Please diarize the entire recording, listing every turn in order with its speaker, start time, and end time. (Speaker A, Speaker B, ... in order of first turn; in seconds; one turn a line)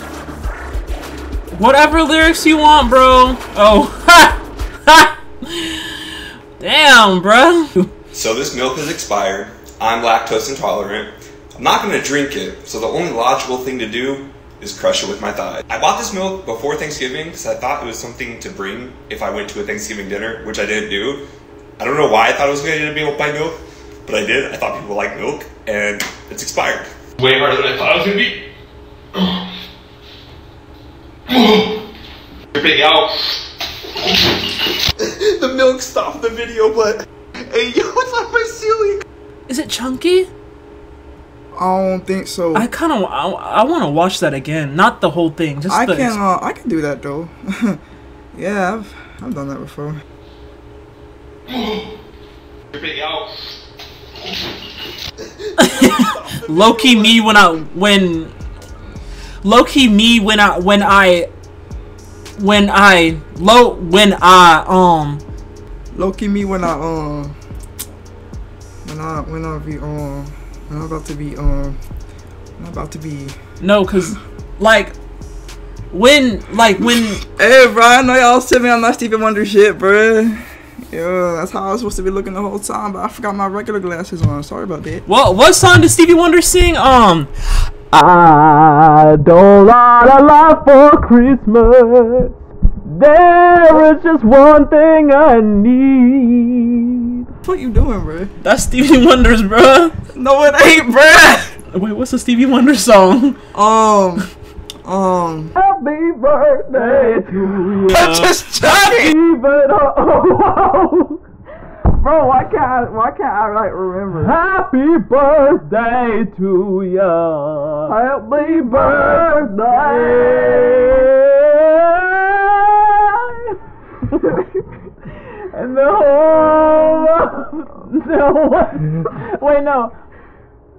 Speaker A: 1.5-6.0
Speaker A: 6.6-7.9
Speaker B: 8.1-21.2
Speaker B: 21.8-26.9
Speaker C: 27.2-28.4
Speaker C: 31.3-31.8
Speaker C: 32.5-33.4
Speaker B: 35.1-37.0
Speaker B: 37.5-38.9
Speaker A: 39.5-40.3
Speaker D: 41.5-42.7
Speaker A: 42.5-46.2
Speaker D: 45.7-47.8
Speaker D: 48.3-50.0
Speaker C: 51.5-51.9
Speaker C: 52.7-53.6
Speaker A: 55.6-58.3
Speaker A: 59.4-61.3
Speaker A: 62.4-65.2
Speaker D: 65.9-67.3
Speaker D: 68.8-71.8
Speaker D: 72.6-73.3
Speaker A: 73.6-74.9
Speaker A: 75.9-77.2
Speaker D: 76.8-85.0
Speaker A: 85.0-97.2
Speaker D: 97.4-98.3
Speaker A: 98.4-100.0
Speaker D: 100.1-101.5
Speaker A: 101.7-103.4
Speaker D: 103.5-104.3
Speaker D: 104.8-105.5
Speaker A: 105.6-111.2
Speaker D: 106.8-109.2
Speaker D: 111.9-114.3
Speaker A: 114.1-117.9
Speaker D: 117.9-120.7
Speaker A: 118.8-123.6
Speaker A: 125.3-129.9